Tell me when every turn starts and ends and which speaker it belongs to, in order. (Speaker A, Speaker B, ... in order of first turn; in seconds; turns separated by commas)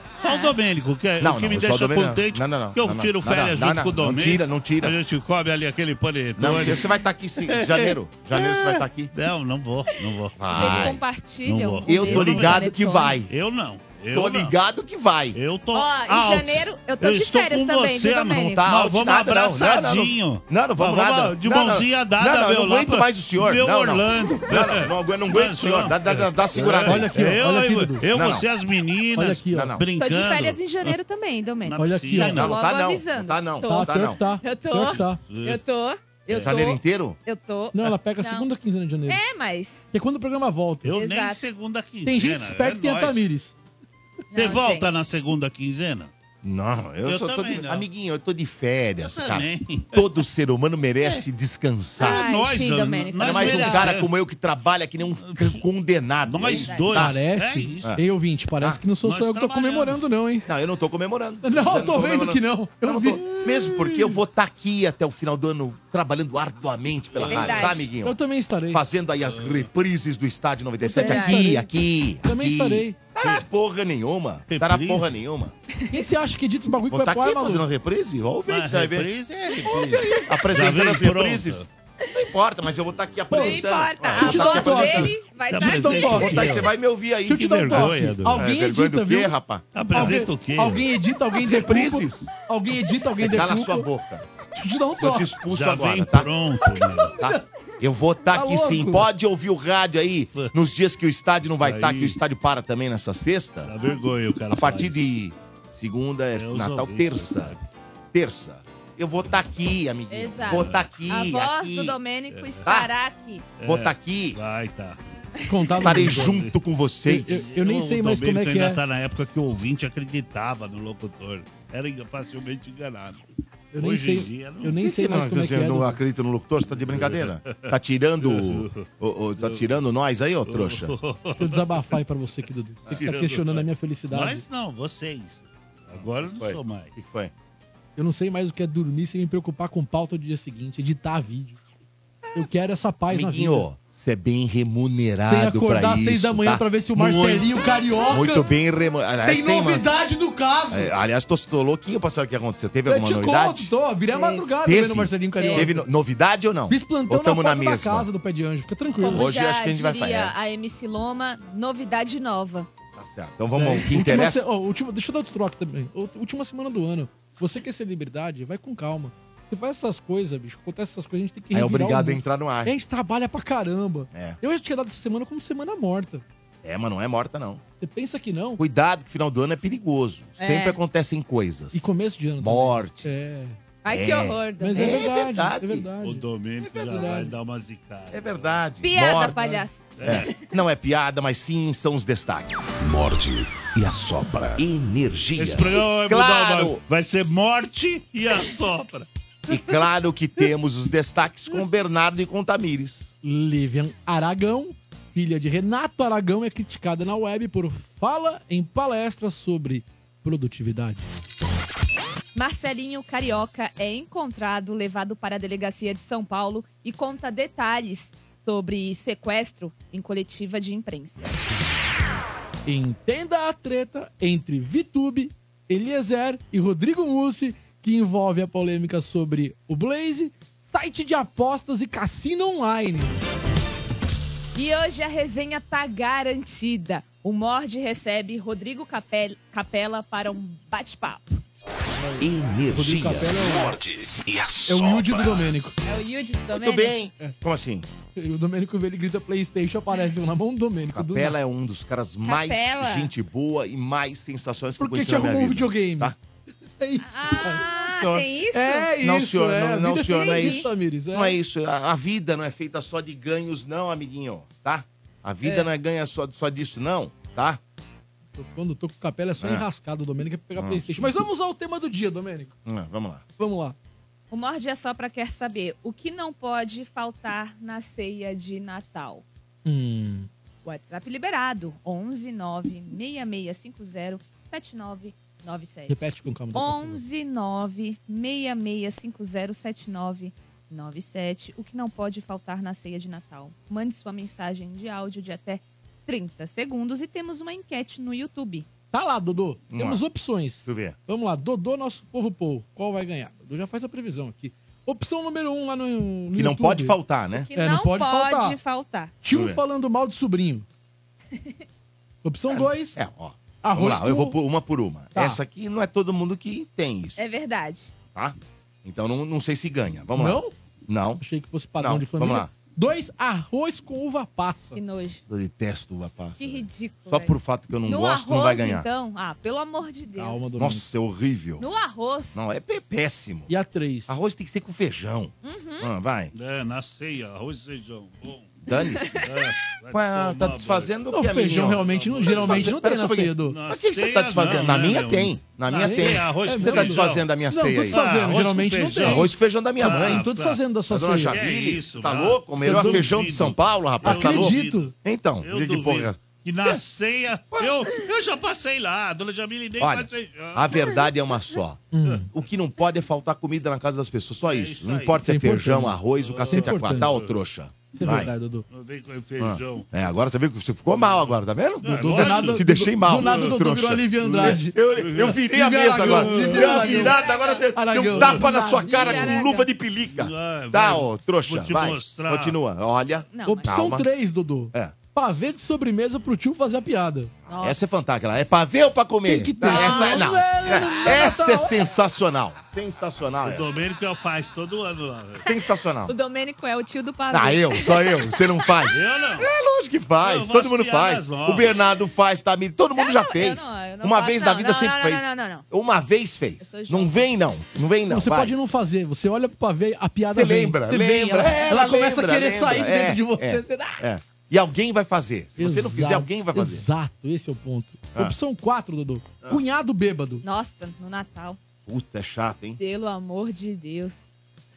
Speaker A: 0.2-12.7, Speaker B: 0.2-0.5, Speaker C: 1.2-4.9, Speaker C: 6.4-9.1, Speaker C: 10.4-11.0, Speaker B: 10.5-13.2, Speaker C: 11.8-13.3, Speaker A: 13.3-14.5, Speaker C: 14.1-15.4, Speaker A: 15.3-30.9, Speaker B: 15.7-18.6, Speaker C: 18.4-27.1, Speaker D: 26.8-28.0, Speaker C: 28.1-28.5, Speaker D: 29.1-29.8, Speaker C: 29.5-29.8, Speaker B: 29.9-38.5, Speaker A: 31.6-32.6, Speaker D: 31.8-32.5, Speaker C: 32.2-34.2, Speaker D: 33.6-35.2, Speaker A: 34.9-35.6, Speaker A: 36.3-36.5, Speaker C: 36.4-37.2, Speaker D: 37.7-39.2, Speaker B: 39.1-39.9, Speaker D: 39.9-40.9, Speaker A: 40.8-43.2, Speaker B: 40.9-41.4, Speaker D: 42.0-43.5, Speaker B: 44.3-45.0, Speaker A: 44.3-46.1, Speaker C: 46.4-52.2, Speaker A: 47.0-47.9, Speaker A: 49.1-50.2, Speaker B: 52.0-54.0, Speaker A: 52.0-54.1, Speaker C: 53.2-57.2, Speaker A: 55.2-55.6, Speaker A: 56.2-57.9, Speaker B: 56.5-57.0, Speaker D: 57.0-60.5, Speaker A: 59.0-60.0, Speaker C: 60.5-68.2, Speaker D: 61.4-64.2, Speaker A: 67.2-67.8, Speaker B: 67.2-67.8, Speaker D: 68.0-68.8, Speaker C: 68.7-75.5, Speaker A: 69.2-69.7, Speaker B: 70.8-71.5, Speaker D: 70.9-73.0, Speaker A: 74.5-75.1, Speaker B: 75.7-76.0, Speaker D: 75.9-77.6, Speaker C: 76.9-79.1, Speaker A: 78.5-81.7, Speaker C: 79.6-85.1, Speaker D: 83.3-86.6, Speaker B: 83.3-86.4, Speaker A: 85.5-86.7, Speaker C: 86.2-90.2, Speaker A: 87.3-88.4, Speaker D: 87.3-89.3, Speaker A: 89.7-90.9, Speaker D: 89.9-93.9, Speaker C: 91.3-92.3, Speaker C: 93.1-94.3, Speaker D: 94.5-95.3, Speaker C: 95.0-96.3, Speaker A: 95.5-97.2, Speaker D: 97.0-97.4, Speaker C: 97.2-103.7, Speaker D: 98.3-99.1, Speaker A: 101.6-102.2, Speaker A: 103.7-104.9, Speaker C: 104.5-107.5, Speaker A: 106.3-107.6, Speaker C: 108.1-112.0, Speaker B: 110.1-113.4, Speaker A: 110.4-110.9, Speaker A: 112.3-112.6, Speaker C: 112.6-112.9, Speaker A: 113.6-115.0, Speaker C: 113.7-114.4, Speaker D: 115.5-116.4, Speaker A: 115.8-116.6, Speaker C: 115.8-117.5, Speaker D: 117.0-118.8, Speaker A: 117.2-123.2, Speaker D: 123.7-126.0, Speaker A: 123.8-124.8, Speaker C: 124.8-130.9, Speaker A: 126.7-129.8, Speaker A: 130.4-131.9, Speaker D: 131.4-134.4, Speaker A: 132.9-136.9, Speaker C: 135.9-137.3, Speaker D: 137.9-141.6, Speaker D: 142.3-143.7, Speaker C: 143.1-147.5, Speaker D: 145.2-148.4, Speaker C: 148.1-149.9, Speaker D: 149.2-150.9, Speaker C: 150.7-153.7, Speaker D: 152.8-155.9, Speaker B: 154.1-154.4, Speaker C: 154.6-158.1, Speaker B: 155.4-155.7, Speaker D: 156.7-159.3, Speaker B: 159.0-162.7, Speaker C: 159.0-160.3, Speaker C: 163.0-164.4, Speaker D: 163.5-176.2, Speaker C: 171.5-172.7, Speaker C: 174.1-174.4, Speaker C: 176.6-177.6, Speaker D: 177.8-178.6, Speaker C: 178.6-181.9, Speaker B: 180.4-180.8, Speaker D: 181.7-183.5, Speaker C: 182.4-183.3, Speaker B: 183.8-185.0, Speaker C: 183.9-185.8, Speaker D: 184.6-187.3, Speaker A: 186.0-188.6, Speaker C: 188.1-192.6, Speaker B: 188.8-190.4, Speaker D: 189.3-189.6, Speaker A: 189.9-190.3, Speaker E: 192.8-194.6, Speaker C: 194.6-196.8, Speaker A: 195.4-199.1, Speaker C: 199.5-203.1, Speaker D: 203.2-211.0, Speaker B: 212.3-221.4, Speaker D: 222.7-233.2, Speaker B: 234.5-241.4, Speaker D: 241.9-243.8, Speaker C: 242.2-243.4, Speaker E: 243.4-245.5, Speaker D: 244.7-245.7, Speaker B: 245.8-246.9, Speaker C: 246.5-247.8, Speaker D: 248.1-251.4, Speaker C: 250.9-256.1, Speaker B: 252.2-253.1, Speaker D: 254.8-256.1, Speaker D: 256.8-257.6, Speaker B: 257.0-258.9, Speaker C: 257.4-258.3, Speaker D: 258.5-261.4, Speaker C: 259.0-267.6, Speaker B: 260.1-260.7, Speaker D: 268.3-272.6, Speaker C: 270.6-271.1, Speaker C: 272.6-273.2, Speaker D: 273.4-273.8, Speaker B: 274.3-279.2, Speaker D: 279.6-280.3, Speaker B: 280.6-286.0, Speaker D: 285.9-287.0, Speaker B: 286.5-298.6, Speaker D: 298.9-307.0, Speaker C: 299.7-300.0, Speaker C: 300.6-300.9, Speaker C: 306.3-307.5, Speaker B: 307.3-309.1, Speaker D: 307.5-308.6, Speaker D: 309.2-310.6, Speaker C: 309.3-309.6, Speaker D: 312.2-313.0, Speaker C: 312.5-317.3, Speaker D: 313.6-314.4, Speaker D: 315.1-315.4, Speaker B: 317.2-317.9, Speaker C: 318.1-321.2, Speaker D: 320.1-320.5, Speaker D: 321.2-324.8, Speaker C: 321.8-322.5, Speaker B: 324.7-325.2, Speaker C: 325.3-328.9, Speaker B: 326.4-327.3, Speaker B: 327.8-330.5, Speaker D: 330.1-330.9, Speaker C: 330.6-331.6, Speaker B: 331.6-332.4, Speaker C: 332.3-333.5, Speaker D: 333.5-334.1, Speaker C: 334.1-336.3, Speaker B: 335.4-335.9, Speaker A: 336.3-338.6, Speaker C: 338.6-339.2, Speaker A: 339.2-340.9, Speaker C: 339.9-348.0, Speaker D: 341.1-343.6, Speaker A: 341.5-342.8, Speaker A: 343.4-347.3, Speaker D: 345.7-349.3, Speaker A: 347.9-350.6, Speaker C: 349.0-350.2, Speaker D: 349.8-351.4, Speaker C: 350.9-356.8, Speaker A: 351.2-361.0, Speaker D: 352.6-353.1, Speaker D: 354.0-354.9, Speaker C: 359.8-368.3, Speaker D: 361.9-362.3, Speaker A: 364.4-365.2, Speaker D: 365.2-366.0, Speaker A: 366.2-367.4, Speaker D: 366.5-367.1, Speaker D: 367.9-368.6, Speaker A: 368.7-369.9, Speaker C: 369.4-384.1, Speaker A: 370.9-373.6, Speaker D: 371.9-374.7, Speaker A: 374.2-377.1, Speaker D: 375.5-377.2, Speaker B: 376.9-377.7, Speaker D: 377.7-379.5, Speaker A: 378.1-378.4, Speaker B: 378.6-379.6, Speaker A: 380.0-382.6, Speaker B: 383.3-383.7, Speaker D: 383.4-387.3, Speaker B: 387.5-387.8, Speaker C: 387.6-393.7, Speaker D: 389.2-391.8, Speaker B: 389.6-390.4, Speaker A: 393.4-395.4, Speaker C: 395.4-396.1, Speaker B: 395.4-398.4, Speaker C: 397.3-408.5, Speaker A: 398.9-399.5, Speaker A: 400.2-401.8, Speaker B: 403.0-405.6, Speaker B: 406.6-407.2, Speaker D: 408.1-414.0, Speaker C: 410.3-416.8, Speaker B: 411.1-411.6, Speaker D: 415.6-420.4, Speaker B: 420.4-421.6, Speaker C: 421.9-422.8, Speaker B: 422.8-424.3